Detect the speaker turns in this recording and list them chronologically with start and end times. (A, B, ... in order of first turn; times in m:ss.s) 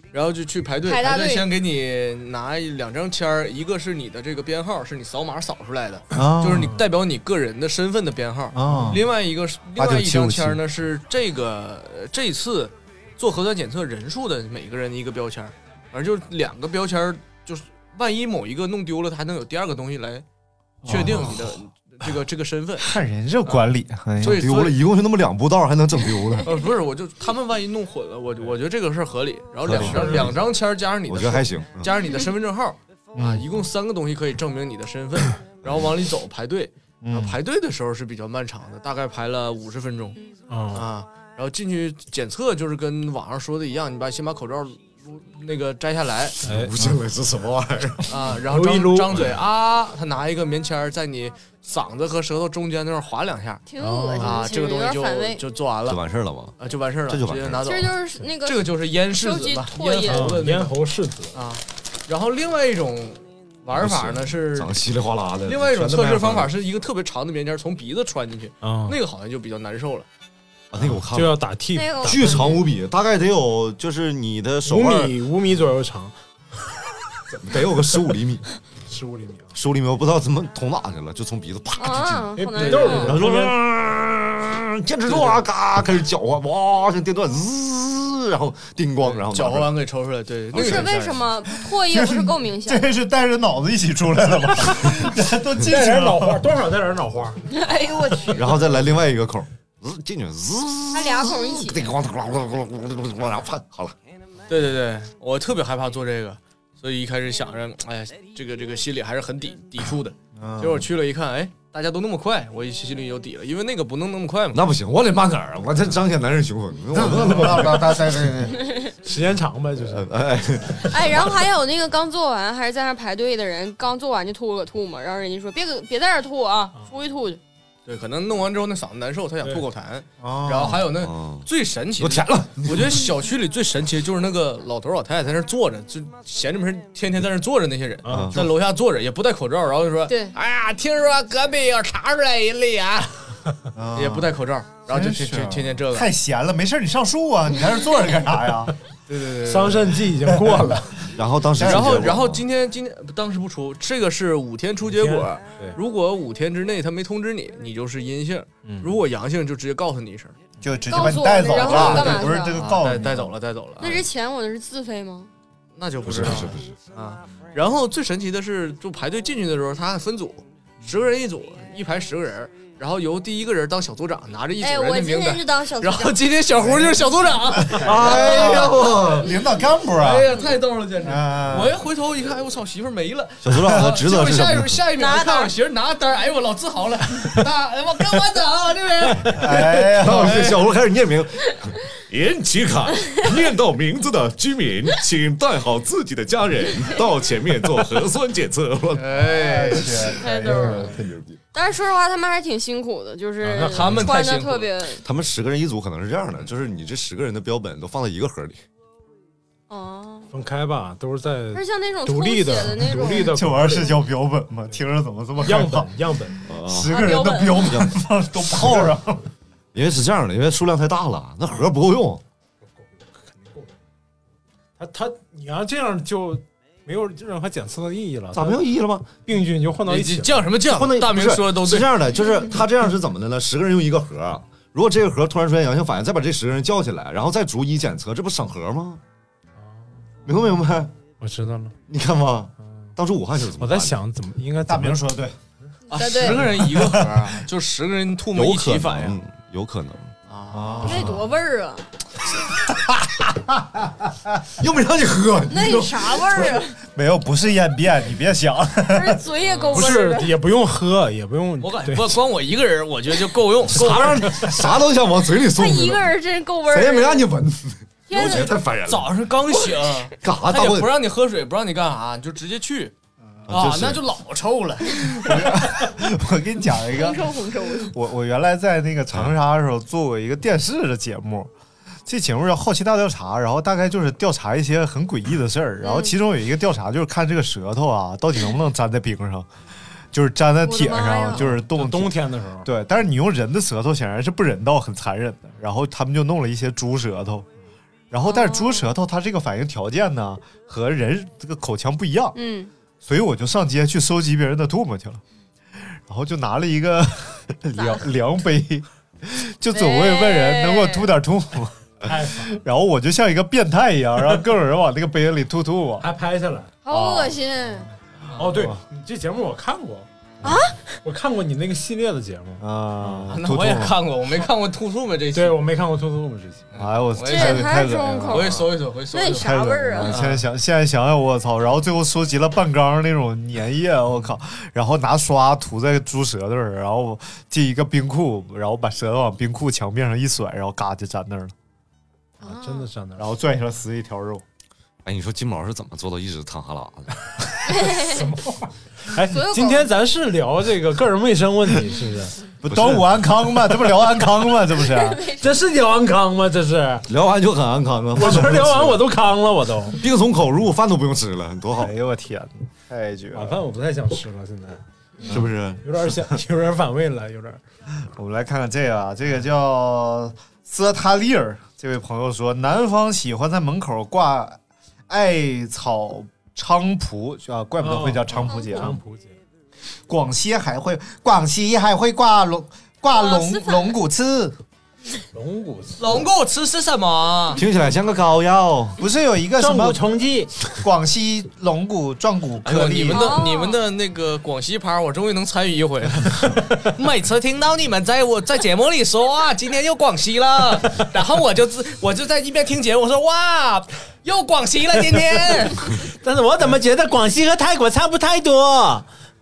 0:00.1-0:20.2 A
0:00.8-0:01.5 B
0:06.1-0:06.8 C
0:08.5-0:09.1 C
0:09.8-0:10.6 C
0:20.8-0:21.5 C
0:20.8-0:23.6 A
0:21.0-0:21.4 D
0:22.8-0:24.5 C
0:24.2-0:24.8 A
0:24.2-0:26.6 D
0:26.4-0:40.2 A
0:29.6-0:30.4 D
0:31.1-0:31.9 D
0:33.2-0:33.5 C
0:37.0-0:37.4 C
0:40.5-0:40.8 E
0:40.7-0:46.4 A
0:46.4-0:48.1 D
0:46.4-0:46.9 E
0:48.1-0:53.6 A
0:48.5-0:49.2 E
0:53.7-0:55.4 B
0:53.8-0:54.5 E
0:54.2-0:56.0 A
0:55.9-0:56.6 D
0:56.6-1:00.8 A
0:57.1-0:57.8 D
0:57.6-1:00.4 B
1:00.1-1:01.4 E
1:01.4-1:04.8 A
1:03.8-1:06.5 D
1:05.5-1:10.1 A
1:08.6-1:09.0 E
1:10.7-1:11.4 D
1:10.8-1:12.6 E
1:11.7-1:12.6 B
1:12.1-1:15.2 D
1:14.7-1:16.2 E
1:17.3-1:18.4 D
1:18.9-1:19.6 E
1:19.6-1:29.7 D
1:21.8-1:23.2 B
1:22.4-1:23.6 E
1:22.6-1:23.2 A
1:25.1-1:25.4 A
1:29.0-1:31.2 A
1:30.5-1:31.0 D
1:30.5-1:32.8 B
1:31.7-1:36.4 C
1:35.6-1:37.5 E
1:37.5-1:38.6 B
1:38.3-1:44.0 D
1:40.9-1:41.9 B
1:44.5-1:54.6 A
1:50.4-1:50.9 C
1:54.5-1:58.2 D
1:56.9-1:58.6 C
1:59.0-2:00.1 E
1:59.8-2:01.4 D
2:00.9-2:07.4 B
2:07.9-2:23.2 A
2:10.2-2:10.9 C
2:10.9-2:13.1 D
2:18.0-2:18.3 E
2:18.1-2:18.5 D
2:23.8-2:28.7 C
2:24.0-2:26.1 A
2:29.1-2:30.0 A
2:29.4-2:31.0 E
2:30.3-2:31.0 C
2:31.1-2:32.4 D
2:31.6-2:32.2 C
2:31.6-2:40.4 A
2:34.9-2:35.8 E
2:38.6-2:38.9 E
2:40.6-2:43.3 C
2:40.9-2:42.6 B
2:41.5-2:44.1 A
2:43.8-2:45.3 B
2:45.8-2:59.1 A
2:46.0-2:46.7 D
2:54.6-2:56.2 B
2:56.6-2:57.0 C
2:57.6-3:00.3 C
2:57.8-2:59.4 D
3:00.0-3:10.6 A
3:01.0-3:01.8 C
3:03.4-3:04.8 D
3:05.0-3:05.5 B
3:09.2-3:10.6 C
3:09.6-3:21.4 D
3:18.9-3:20.0 A
3:19.2-3:21.0 C
3:20.2-3:21.0 B
3:21.5-3:25.0 B
3:23.4-3:24.0 E
3:23.6-3:24.7 A
3:25.0-3:28.6 D
3:29.7-3:30.3 B
3:30.3-3:34.0 E
3:31.5-3:33.9 B
3:33.2-3:36.0 C
3:35.4-3:36.4 E
3:36.4-3:37.0 D
3:36.6-3:39.3 C
3:36.9-3:37.8 B
3:37.6-3:37.9 D
3:39.7-3:42.2 D
3:42.8-3:43.8 E
3:44.8-3:48.7 E
3:48.3-3:49.1 D
3:49.2-3:50.5 E
3:49.9-3:51.9 A
3:50.7-3:59.0 D
3:59.6-3:59.9 E
4:00.2-4:00.9 D
4:01.2-4:01.8 E
4:01.9-4:04.0 D
4:03.6-4:05.1 E
4:04.7-4:05.3 C
4:05.9-4:09.2 A
4:05.9-4:06.5 B
4:06.5-4:07.2 C
4:08.3-4:10.2 D
4:10.3-4:11.0 A
4:10.5-4:11.3 C
4:10.8-4:11.9 B
4:13.5-4:14.4 C
4:14.6-4:16.6 D
4:15.5-4:16.8 B
4:16.8-4:19.2 C
4:18.9-4:20.3 B
4:19.4-4:19.8 A
4:19.7-4:22.1 E
4:21.6-4:24.7 A
4:23.6-4:29.2 D
4:25.5-4:27.3 B
4:28.1-4:28.5 B
4:28.1-4:32.9 A
4:30.2-4:30.9 D
4:33.3-4:33.7 C
4:33.5-4:34.0 D
4:33.5-4:35.5 A
4:35.2-4:41.5 C
4:36.9-4:37.9 B
4:42.1-4:49.5 C
4:45.8-4:46.1 B
4:50.1-4:57.5 C
4:50.6-4:51.5 B
4:51.5-4:52.7 E
4:58.1-5:02.4 C
4:58.3-4:58.9 B
5:02.4-5:02.7 B
5:03.0-5:05.2 C
5:05.8-5:16.1 C
5:07.8-5:08.0 B
5:09.7-5:11.1 B
5:12.1-5:12.5 E
5:16.0-5:16.7 E
5:16.8-5:17.9 B
5:16.9-5:17.4 C
5:18.4-5:20.1 E
5:18.4-5:18.8 C
5:20.4-5:21.0 B
5:21.0-5:23.3 E
5:22.6-5:24.0 C
5:23.3-5:25.6 A
5:25.4-5:26.7 E
5:26.7-5:27.7 A
5:26.8-5:28.6 C
5:27.3-5:30.2 B
5:28.3-5:30.4 A
5:29.4-5:41.5 C
5:42.4-5:43.3 E
5:42.4-5:42.9 B
5:43.2-5:44.4 C
5:45.0-5:47.5 D
5:47.7-5:48.3 B
5:47.8-5:52.4 E
5:49.2-5:49.9 B
5:52.6-5:55.2 C
5:52.7-5:53.1 D
5:54.8-5:55.6 B
5:55.4-5:57.1 E
5:57.1-5:59.0 D
5:58.2-6:00.0 E
5:59.9-6:01.9 D
6:01.8-6:03.6 C
6:03.3-6:04.8 E
6:05.2-6:05.5 C
6:05.3-6:05.8 D
6:05.4-6:07.6 E
6:08.0-6:19.0 C
6:17.8-6:19.4 E
6:18.5-6:18.8 B
6:20.1-6:24.6 C
6:23.1-6:24.0 B
6:25.3-6:26.2 E
6:26.0-6:27.6 A
6:27.5-6:29.0 D
6:29.0-6:30.0 C
6:29.6-6:30.5 E
6:30.8-6:33.4 C
6:32.6-6:46.0 A
6:33.1-6:33.8 B
6:46.0-6:49.1 E